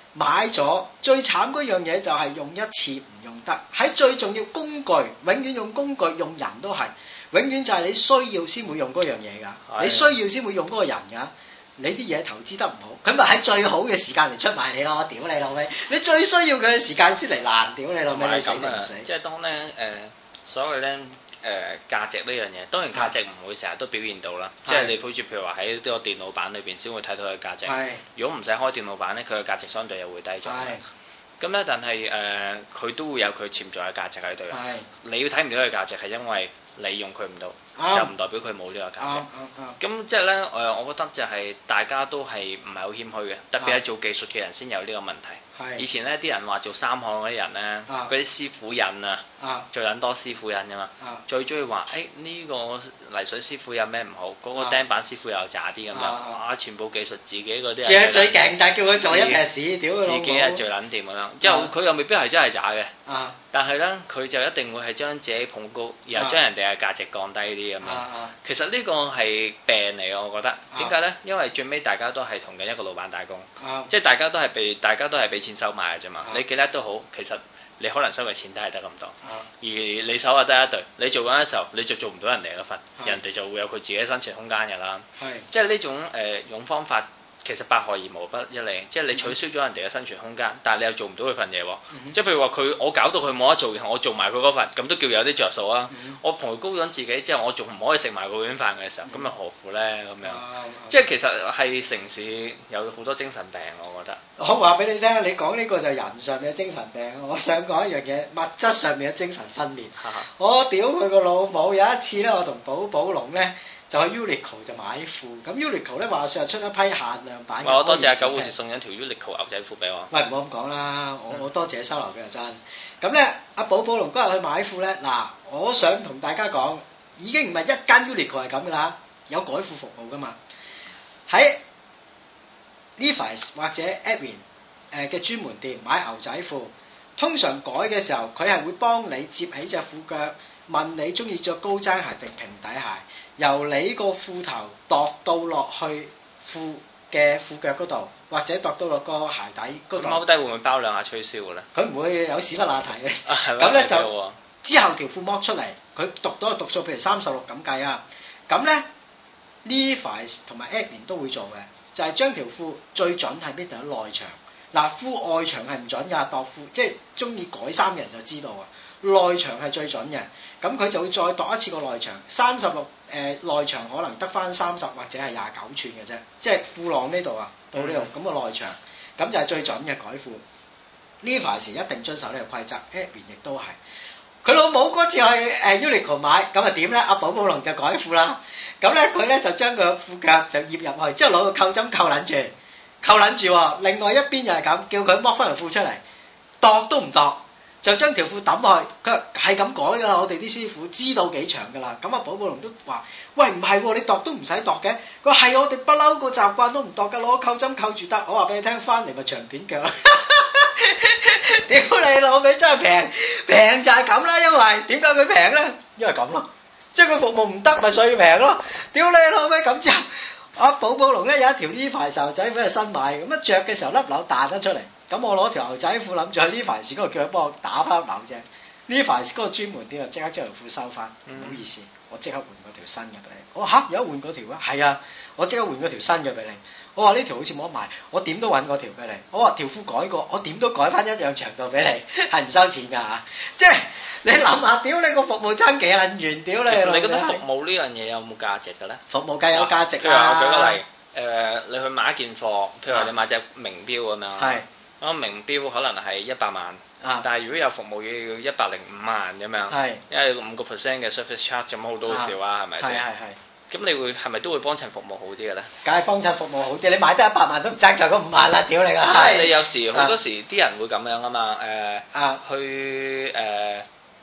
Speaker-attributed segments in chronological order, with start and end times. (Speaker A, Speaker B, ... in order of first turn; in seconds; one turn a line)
Speaker A: 0.1-19.1
Speaker B: 9.7-10.2
Speaker B: 18.1-30.8
Speaker A: 24.6-24.9
Speaker A: 27.6-28.0
Speaker A: 30.4-30.8
Speaker B: 31.4-39.2
Speaker A: 34.5-34.9
Speaker A: 37.8-38.1
Speaker A: 39.0-39.8
Speaker B: 39.8-59.4
Speaker A: 45.5-45.8
Speaker A: 49.4-49.7
Speaker A: 55.9-56.4
Speaker A: 57.8-60.6
Speaker B: 60.0-62.9
Speaker A: 61.4-61.7
Speaker A: 63.0-63.4
Speaker B: 63.5-104.2
Speaker A: 67.8-68.3
Speaker A: 73.6-73.9
Speaker A: 85.2-85.5
Speaker A: 91.9-92.2
Speaker A: 95.9-96.2
Speaker A: 100.2-100.9
Speaker A: 104.4-118.5
Speaker B: 110.0-110.3
Speaker B: 117.6-120.1
Speaker A: 120.1-130.4
Speaker A: 131.3-131.6
Speaker A: 133.0-150.2
Speaker B: 149.9-151.7
Speaker A: 151.7-154.1
Speaker B: 153.2-154.4
Speaker A: 154.6-158.8
Speaker A: 159.6-180.4
Speaker B: 177.8-178.1
Speaker A: 181.2-183.8
Speaker A: 184.4-196.0
Speaker A: 196.6-247.4
Speaker B: 231.3-231.7
Speaker B: 246.7-263.0
Speaker A: 249.1-250.8
Speaker A: 254.4-254.6
Speaker A: 259.7-260.0
Speaker A: 262.1-263.4
Speaker B: 263.7-265.7
Speaker A: 265.8-270.1
Speaker B: 269.0-273.9
Speaker A: 272.1-272.4